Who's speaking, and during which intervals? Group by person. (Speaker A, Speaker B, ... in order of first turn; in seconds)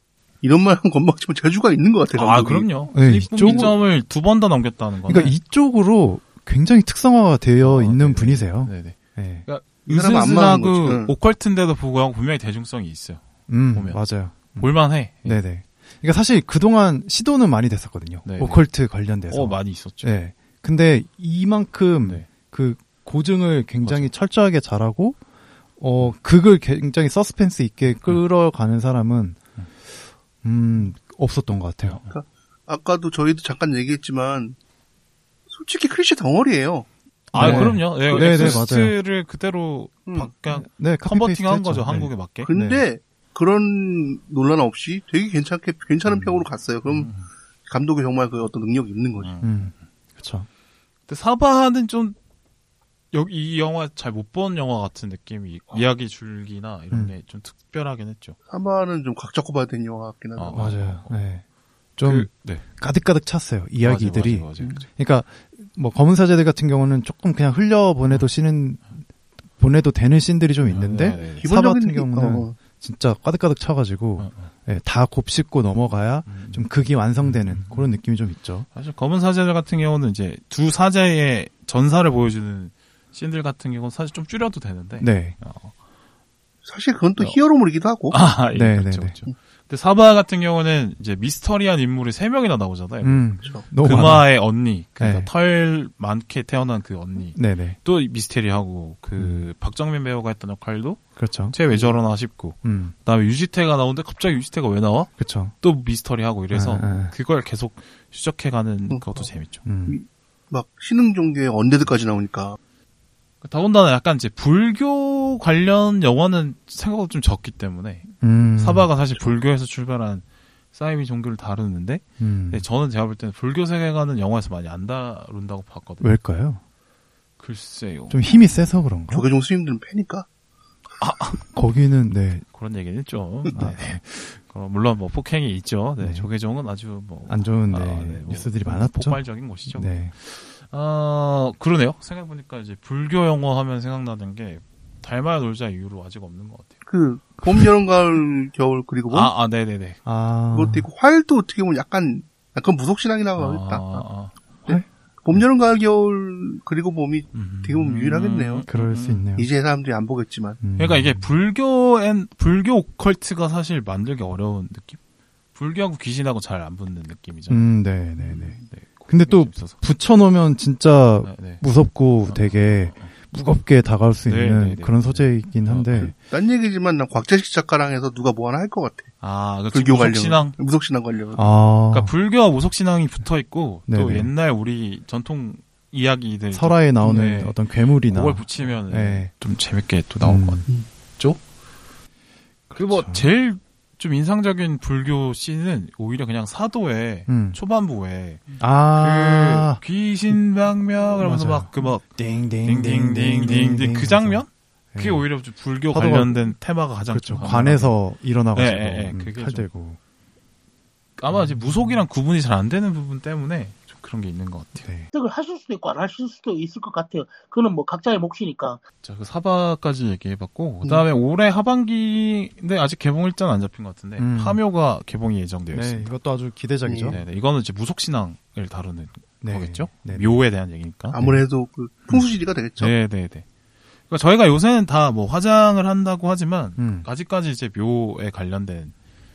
Speaker A: 0.4-2.7, 3.5-3.7, 9.8-11.1, 32.1-34.6, 35.5-38.6, 42.4-47.1, 47.7-49.3, 58.5-60.7, 71.4-72.6, 86.6-88.2, 108.9-109.2, 109.9-112.6, 129.1-130.3, 146.9-149.3, 150.5-154.0, 154.7-158.7, 159.3-160.6, 176.0-179.1, 179.7-181.4, 226.8-227.2, 231.1-232.9
Speaker B: 2.1-5.3, 7.6-15.4, 18.2-18.6, 19.3-20.1, 23.8-24.1, 27.9-28.2, 37.3-42.5, 46.0-47.3, 49.2-49.7, 51.1-52.1, 53.1-58.4, 60.4-61.2, 62.0-62.6, 63.8-64.8, 70.7-71.5, 74.2-74.5, 76.2-77.9, 78.7-85.7, 88.1-109.6, 113.4-126.1, 127.4-128.2, 131.0-131.5, 132.5-146.8, 149.1-150.0, 153.4-154.3, 157.3-159.2, 160.8-165.0, 165.5-167.7, 168.6-169.8, 171.2-171.6, 172.3-173.1, 174.2-176.1, 179.2-180.5, 181.9-191.4, 192.8-207.9, 208.5-209.7, 211.2-214.9, 219.0-226.1, 227.1-231.2, 232.8-233.4, 234.1-238.9
Speaker C: 2.9-3.8, 5.1-9.4, 13.5-14.7, 15.2-25.2, 25.8-29.4, 30.4-32.0, 37.3-38.9, 40.5-42.8, 49.4-50.5, 60.5-61.4, 62.0-69.0, 69.6-78.7, 85.0-85.4, 88.5-89.2, 93.0-94.3, 95.0-95.3, 97.3-97.8, 99.2-99.4, 101.2-101.5, 102.6-102.9, 105.2-105.5, 106.5-107.1, 109.6-110.0, 118.2-118.9, 122.2-122.6, 126.0-126.6, 128.1-129.2, 131.5-132.4, 133.5-134.0, 136.0-136.3, 137.2-140.1, 150.0-150.9, 158.7-159.5, 160.6-161.3, 167.5-176.1, 181.3-182.1, 183.9-184.3, 186.5-189.3, 190.2-190.6, 192.7-193.2, 197.3-197.6, 198.6-200.4, 201.2-204.4, 204.9-205.2, 205.9-206.5, 207.1-210.0, 211.3-212.0, 214.8-215.1, 224.2-224.6, 225.7-227.2, 229.4-230.3, 231.2-231.4, 236.8-237.1
Speaker D: 215.1-218.8